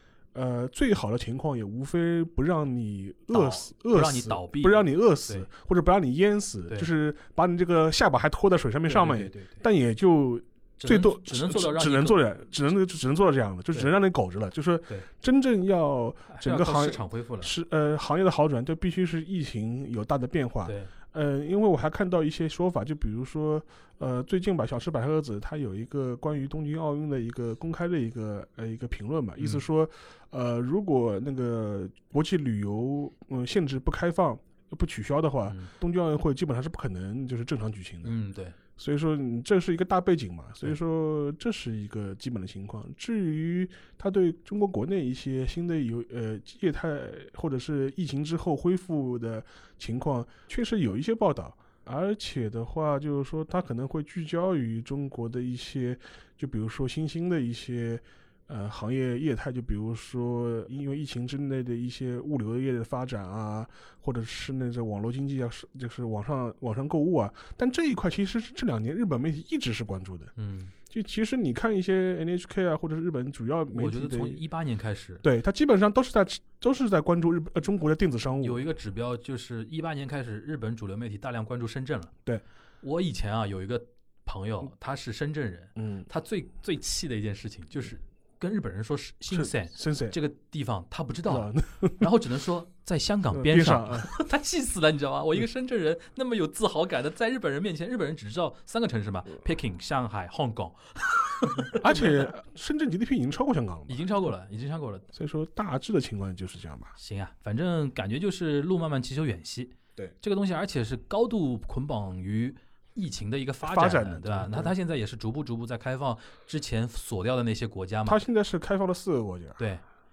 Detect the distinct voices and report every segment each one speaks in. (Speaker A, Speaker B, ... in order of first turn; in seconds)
Speaker A: 0.3-38.1, 38.8-70.3, 70.9-74.4, 75.2-78.6, 85.8-86.1, 89.3-90.2, 91.3-92.1, 93.3-94.1, 101.7-104.1, 105.1-106.9, 113.6-114.8, 118.1-119.6
Speaker B: 3.3-5.5, 8.9-9.6, 10.8-12.4, 16.3-17.5, 20.6-20.9, 29.4-29.6, 38.0-38.5, 70.4-70.7, 73.7-75.2, 78.4-82.1, 82.8-102.3, 103.9-105.1, 107.0-118.2